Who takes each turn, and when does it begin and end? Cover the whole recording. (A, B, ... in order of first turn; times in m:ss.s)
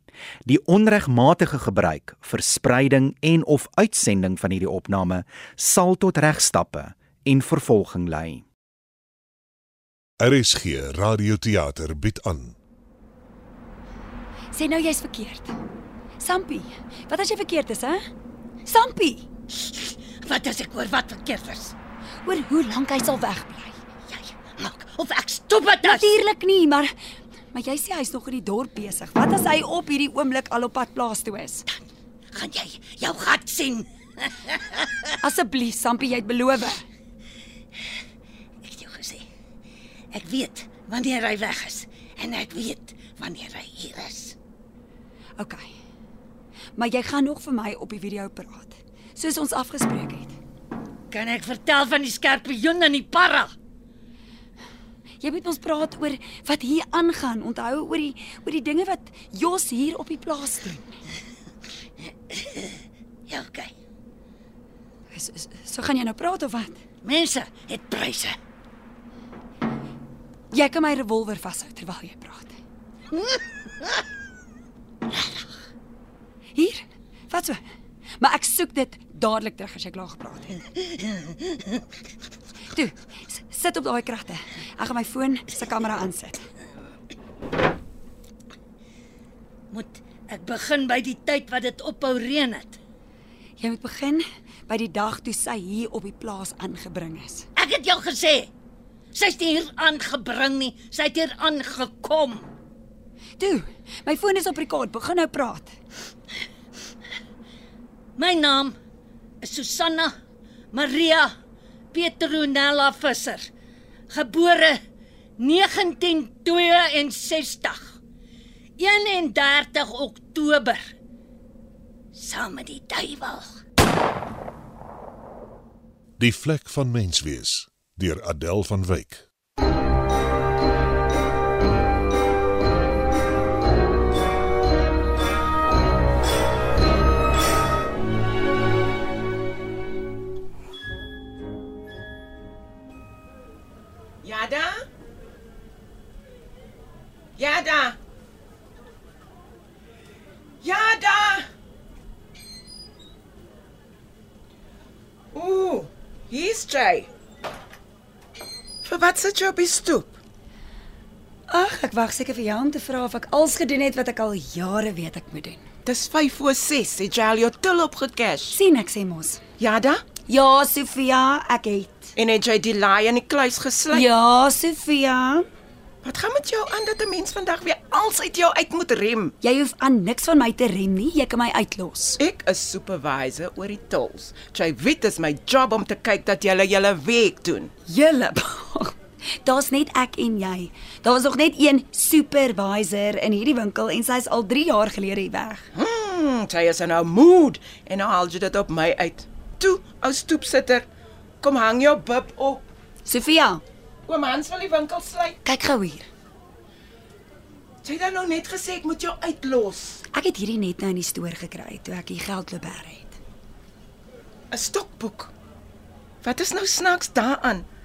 0:00.5-0:08.4 A
0:10.2-0:12.6 B
0:14.5-0:15.5 C
0:16.2-0:18.0 C
0:18.7-0:19.3 C
0:19.6-0:21.8 D
0:22.2-0:23.8 C
0:24.1-0:26.1 D
0:25.8-0:26.9 C
0:27.5-0:31.7 C
0:31.7-0:35.1 D
0:35.2-0:36.8 C
0:38.6-0:39.2 D
0:40.1-0:44.4 D
0:45.4-0:45.7 C
0:46.8-0:50.4 C
0:51.1-0:53.5 D
0:55.2-1:01.0 C
1:02.3-1:02.6 D
1:03.3-1:03.7 D
1:05.1-1:06.8 C
1:07.0-1:08.4 D
1:10.5-1:12.6 C
1:13.1-1:14.0 D
1:16.6-1:17.6 C
1:18.2-1:20.6 C
1:22.7-1:26.5 C
1:29.7-1:32.8 D
1:33.6-1:37.5 C
1:37.6-1:38.5 D
1:39.1-1:42.5 D
1:43.4-1:45.7 C
1:48.2-1:48.8 D
1:49.4-1:50.2 D
1:50.7-1:51.4 D
1:51.9-1:53.5 D
1:54.1-1:54.8 D
1:55.4-1:58.0 D
1:58.8-2:00.9 D
2:02.1-2:03.6 D
2:06.2-2:09.2 B
2:24.2-2:24.8 E
2:27.4-2:28.0 E
2:30.6-2:31.5 E
2:35.3-2:37.1 E
2:38.8-2:40.2 E
2:41.5-2:45.6 C
2:45.8-2:48.6 E
2:48.5-2:49.4 C
2:49.6-2:50.1 E
2:50.3-2:52.1 C
2:52.2-2:54.1 E
2:53.9-2:55.5 C
2:56.0-2:59.3 E
2:59.4-3:02.2 C
3:02.2-3:07.7 E
3:07.9-3:15.7 C
3:15.8-3:20.8 E
3:21.4-3:22.6 E
3:23.1-3:23.6 C
3:24.1-3:25.4 E
3:25.4-3:26.1 C
3:27.8-3:30.0 E
3:30.1-3:33.2 C
3:34.5-3:35.3 E
3:36.2-3:37.7 E